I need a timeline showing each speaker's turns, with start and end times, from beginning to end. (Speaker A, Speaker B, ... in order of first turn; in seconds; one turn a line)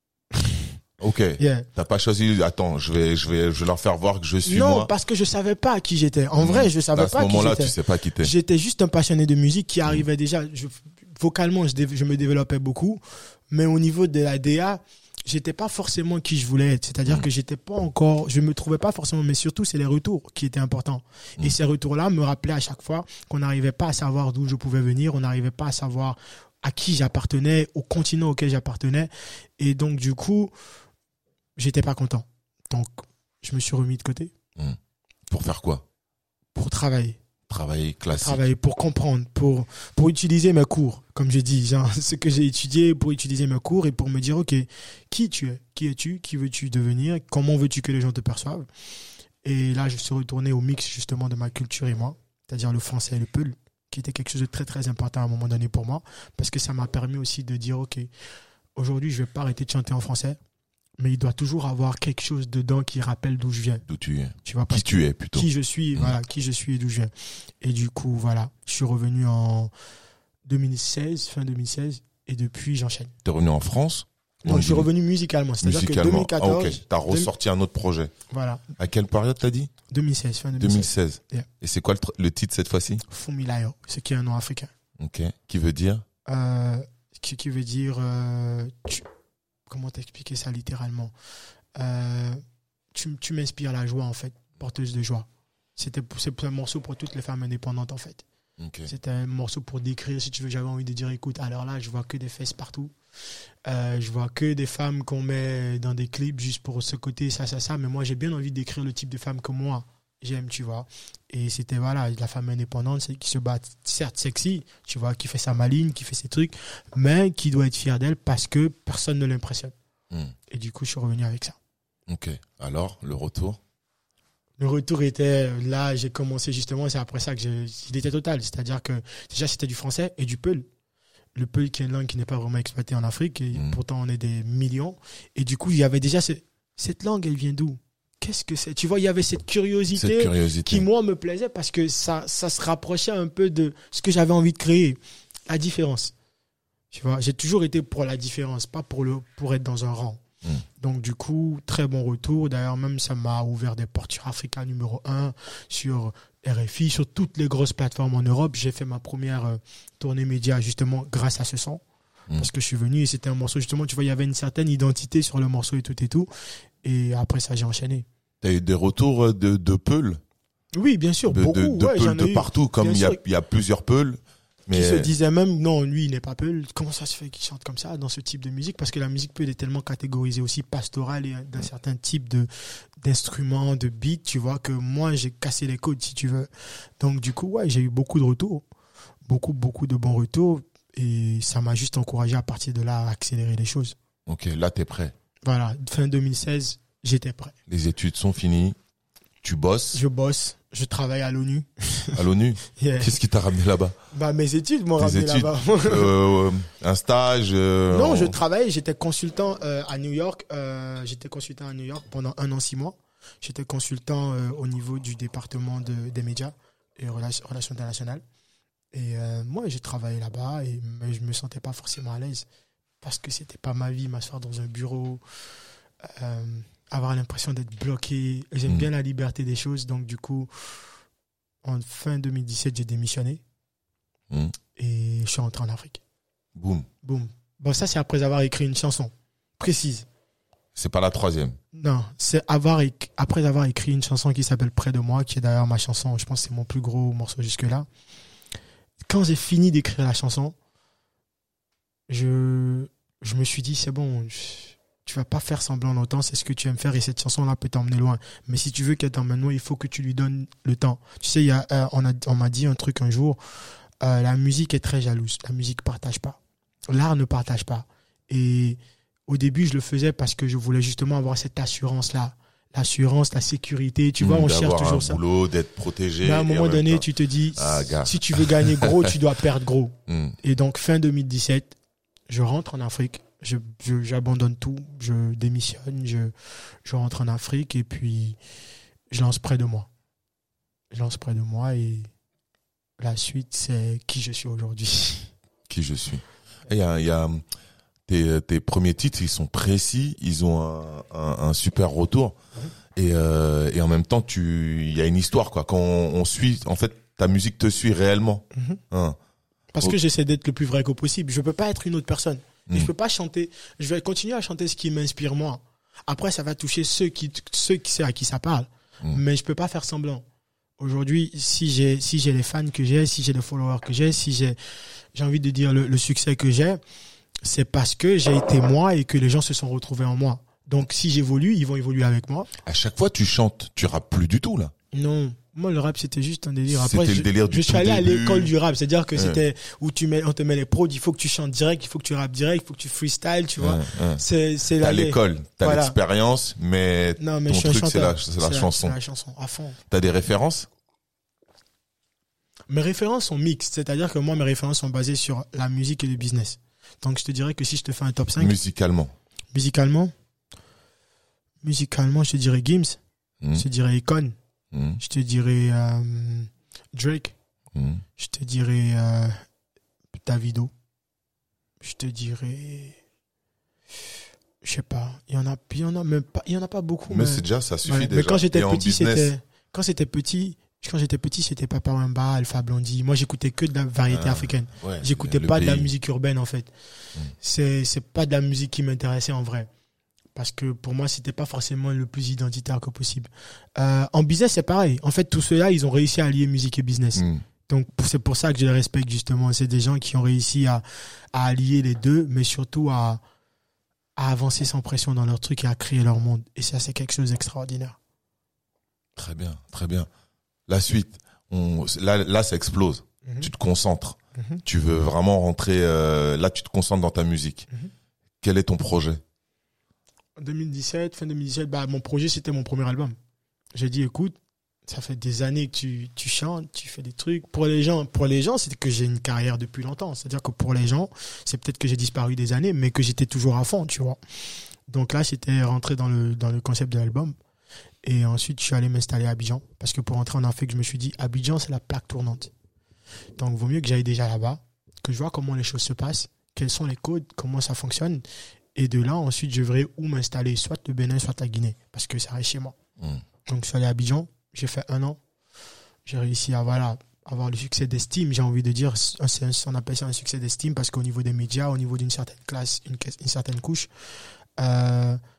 Speaker A: 0.3-0.7
Speaker B: 1.0-4.9
Speaker A: 1.4-1.7
Speaker A: 4.4-30.5
Speaker B: 6.4-8.3
Speaker A: 31.6-34.3
Speaker B: 35.3-35.8
Speaker A: 36.5-37.2
Speaker B: 37.5-38.5
Speaker A: 38.1-48.7
Speaker A: 49.4-58.1
Speaker A: 58.8-60.4
Speaker A: 61.0-63.8
Speaker B: 63.9-66.2
Speaker A: 64.4-69.7
Speaker A: 70.5-73.1
Speaker B: 73.2-74.9
Speaker A: 74.4-77.3
Speaker B: 75.6-78.1
Speaker A: 78.3-78.6
Speaker B: 78.8-79.7
Speaker A: 79.9-81.5
Speaker B: 80.6-83.0
Speaker A: 83.1-84.7
Speaker B: 85.0-86.0
Speaker A: 86.3-89.0
Speaker A: 89.7-91.1
Speaker A: 91.8-92.4
Speaker A: 92.9-98.2
Speaker B: 98.6-98.9
Speaker A: 98.8-102.9
Speaker A: 103.6-119.7
Speaker A: 120.5-121.6
Speaker B: 122.1-123.6
Speaker A: 124.6-130.7
Speaker A: 131.3-146.1
Speaker B: 133.5-133.8
Speaker B: 139.9-140.8
Speaker A: 146.9-150.2
Speaker A: 150.8-161.8
Speaker A: 162.3-166.3
Speaker A: 166.8-168.1
Speaker B: 168.4-170.2
Speaker A: 170.7-173.2
Speaker B: 171.3-175.1
Speaker A: 174.7-182.5
Speaker A: 183.0-188.6
Speaker A: 189.3-193.9
Speaker B: 194.3-195.1
Speaker A: 195.4-197.6
Speaker B: 197.7-198.8
Speaker B: 199.4-200.0
Speaker A: 199.9-202.2
Speaker B: 202.1-204.0
Speaker A: 202.8-203.1
Speaker A: 204.1-206.1
Speaker B: 205.0-208.3
Speaker A: 207.9-218.2
Speaker A: 218.9-222.4
Speaker A: 223.0-225.2
Speaker A: 226.0-230.8
Speaker A: 231.6-233.4
Speaker B: 234.3-234.5
Speaker A: 234.8-236.0
Speaker B: 236.6-236.9
Speaker A: 237.0-240.1
Speaker B: 240.7-241.6
Speaker A: 241.7-247.9
Speaker A: 249.1-250.5
Speaker A: 252.1-263.4
Speaker A: 264.0-275.2
Speaker B: 274.2-279.1
Speaker A: 276.2-281.7
Speaker B: 280.1-280.4
Speaker A: 282.3-286.3
Speaker A: 286.8-288.4
Speaker A: 289.1-289.9
Speaker A: 290.9-292.1
Speaker A: 293.0-295.3
Speaker B: 295.7-297.4
Speaker B: 298.1-302.4
Speaker B: 302.9-309.2
Speaker A: 308.5-308.8
Speaker A: 309.7-320.2
Speaker A: 320.8-324.6
Speaker A: 325.1-326.8
Speaker A: 327.4-332.5
Speaker B: 332.6-334.7
Speaker A: 334.9-345.9
Speaker B: 336.7-338.5
Speaker B: 339.1-339.4
Speaker B: 343.6-344.2
Speaker B: 344.7-348.9
Speaker A: 347.2-349.8
Speaker B: 349.9-350.7
Speaker A: 352.7-358.5
Speaker B: 358.4-359.1
Speaker A: 359.5-360.1
Speaker A: 361.6-363.0
Speaker A: 363.5-364.3
Speaker B: 364.7-365.0
Speaker A: 365.0-367.4
Speaker B: 367.7-368.0
Speaker A: 368.2-369.4
Speaker A: 370.1-370.7
Speaker A: 371.8-373.0
Speaker A: 374.6-386.7
Speaker B: 377.1-379.3
Speaker B: 384.1-385.9
Speaker A: 387.4-389.7
Speaker A: 390.3-403.2
Speaker B: 397.1-397.4
Speaker A: 404.2-408.0
Speaker B: 409.1-410.1
Speaker B: 410.7-417.7
Speaker A: 413.2-413.5
Speaker A: 414.4-414.6
Speaker B: 418.4-419.2
Speaker A: 420.4-423.1
Speaker A: 423.7-434.2
Speaker A: 434.9-437.3
Speaker A: 438.0-442.5
Speaker A: 443.4-448.2
Speaker A: 448.7-452.8
Speaker A: 453.5-455.2
Speaker A: 456.1-463.9
Speaker A: 464.6-465.2